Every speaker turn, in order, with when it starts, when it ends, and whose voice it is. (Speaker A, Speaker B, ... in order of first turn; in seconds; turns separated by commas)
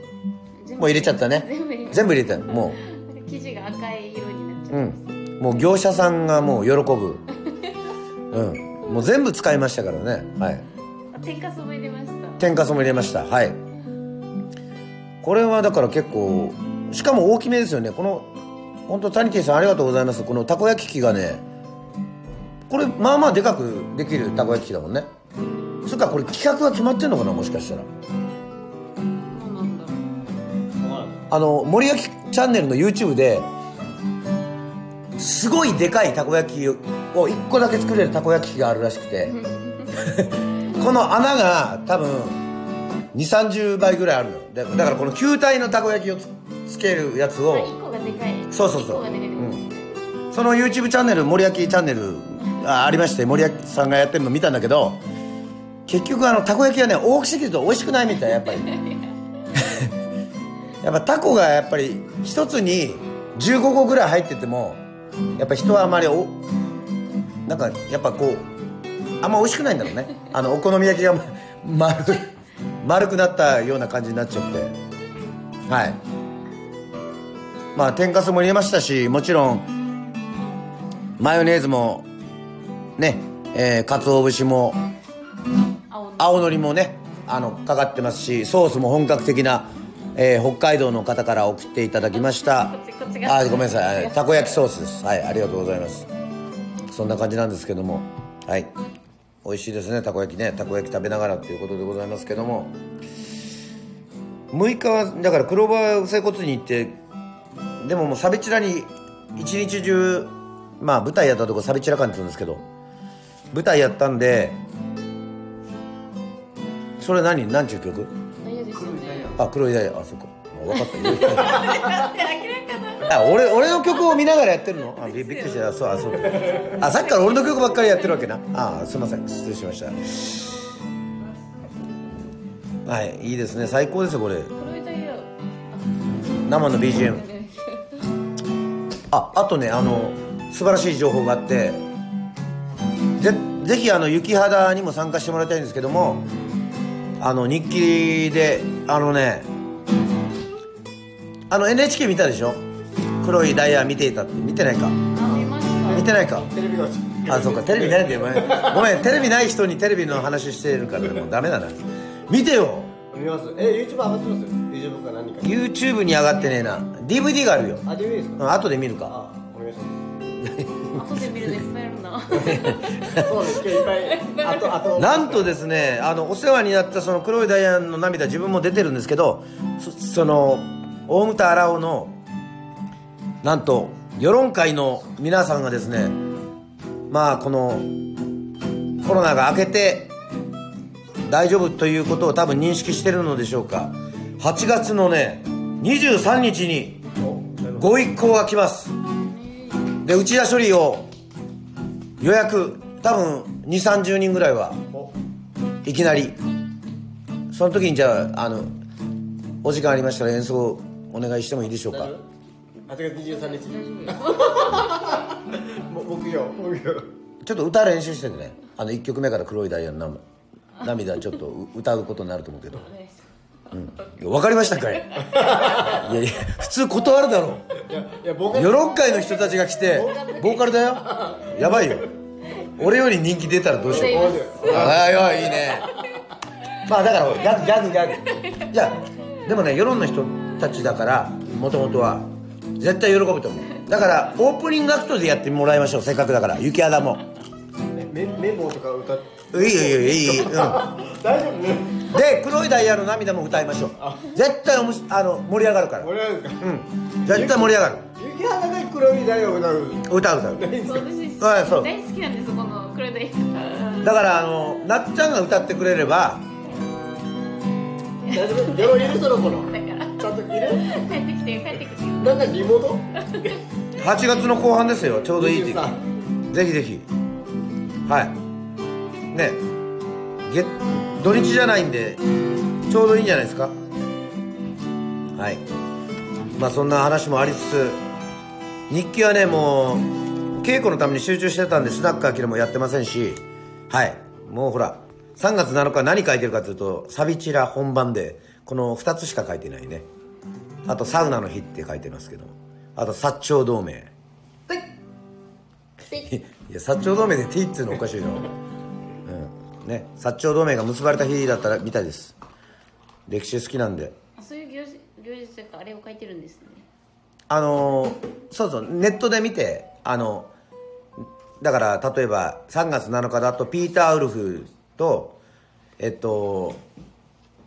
Speaker A: 0.6-5.1, Speaker B: 0.8-2.8, Speaker B: 4.7-7.3, Speaker B: 8.3-10.7, Speaker A: 11.1-12.6, Speaker B: 12.4-13.6, Speaker B: 15.2-18.3, Speaker B: 18.9-21.5, Speaker B: 22.7-25.1, Speaker B: 25.8-27.9, Speaker A: 29.2-30.1, Speaker C: 30.8-31.2, Speaker B: 31.3-33.5, Speaker B: 35.2-39.4, Speaker A: 39.3-40.1, Speaker B: 39.9-42.5, Speaker B: 43.1-47.7, Speaker A: 47.5-49.9, Speaker B: 48.5-49.6, Speaker B: 50.3-55.0, Speaker B: 55.9-58.7, Speaker A: 58.7-59.1, Speaker B: 59.5-59.9, Speaker B: 60.8-64.8, Speaker B: 65.4-66.4, Speaker B: 67.5-68.5, Speaker B: 69.2-74.8, Speaker B: 75.7-76.0, Speaker B: 77.7-79.7, Speaker B: 81.2-82.1, Speaker B: 83.0-84.8, Speaker A: 85.9-86.5, Speaker B: 86.2-92.7, Speaker A: 92.1-94.7, Speaker B: 93.2-96.1, Speaker B: 96.9-98.7, Speaker B: 99.4-102.8, Speaker B: 104.5-107.0, Speaker B: 107.8-112.6, Speaker B: 113.5-114.6, Speaker B: 117.0-118.1, Speaker A: 118.4-119.4, Speaker B: 119.3-121.8, Speaker A: 120.8-128.2, Speaker B: 123.1-130.6, Speaker C: 126.3-126.7, Speaker B: 132.8-134.5, Speaker A: 134.6-138.1, Speaker B: 136.4-137.2, Speaker B: 139.1-141.8, Speaker B: 143.2-146.3, Speaker B: 147.2-149.5, Speaker B: 151.5-152.6, Speaker B: 153.2-155.1, Speaker A: 155.1-156.1, Speaker C: 155.2-159.1, Speaker B: 155.9-156.5, Speaker B: 157.3-162.9, Speaker C: 163.1-165.5, Speaker B: 165.4-169.2, Speaker C: 167.8-168.5, Speaker C: 169.1-170.2, Speaker B: 170.4-171.5, Speaker A: 170.9-174.9, Speaker C: 172.3-175.5, Speaker B: 172.4-173.3, Speaker B: 174.9-182.2, Speaker B: 183.4-186.2, Speaker B: 187.1-187.9, Speaker B: 189.0-190.1, Speaker B: 191.2-197.1, Speaker C: 197.2-197.9, Speaker B: 197.8-199.0, Speaker A: 199.2-200.0, Speaker B: 200.0-201.1, Speaker B: 202.2-204.8, Speaker B: 205.8-206.4, Speaker B: 207.5-208.7, Speaker B: 209.6-212.1, Speaker C: 211.9-212.2, Speaker C: 212.9-217.2, Speaker A: 213.2-215.3, Speaker B: 217.4-220.2, Speaker B: 220.8-222.9, Speaker A: 222.7-226.0, Speaker B: 223.7-227.8, Speaker C: 225.3-226.1, Speaker C: 227.8-229.2, Speaker B: 228.5-235.9, Speaker A: 229.1-230.4, Speaker C: 229.9-232.1, Speaker C: 233.8-236.0, Speaker A: 233.9-236.1, Speaker B: 236.8-247.2, Speaker A: 238.2-238.7, Speaker C: 247.9-252.2, Speaker B: 249.5-251.0, Speaker B: 252.1-258.1, Speaker C: 254.0-254.3, Speaker C: 256.0-256.7, Speaker C: 257.3-261.1, Speaker B: 260.1-260.7, Speaker A: 260.8-264.1, Speaker B: 261.4-261.9, Speaker B: 264.0-266.5, Speaker A: 268.3-272.6, Speaker C: 268.3-270.9, Speaker C: 272.2-273.6, Speaker A: 273.2-273.5, Speaker B: 274.0-277.1, Speaker C: 275.3-276.0, Speaker B: 278.1-278.4, Speaker B: 279.3-279.6, Speaker B: 280.5-282.2, Speaker B: 282.9-283.8, Speaker B: 285.4-285.6, Speaker B: 286.6-288.0, Speaker B: 288.9-300.1, Speaker B: 300.9-304.1, Speaker B: 306.1-308.5, Speaker B: 309.2-312.4, Speaker B: 313.3-314.2, Speaker A: 314.4-316.9, Speaker B: 317.5-320.5, Speaker B: 321.2-325.4, Speaker B: 326.0-326.8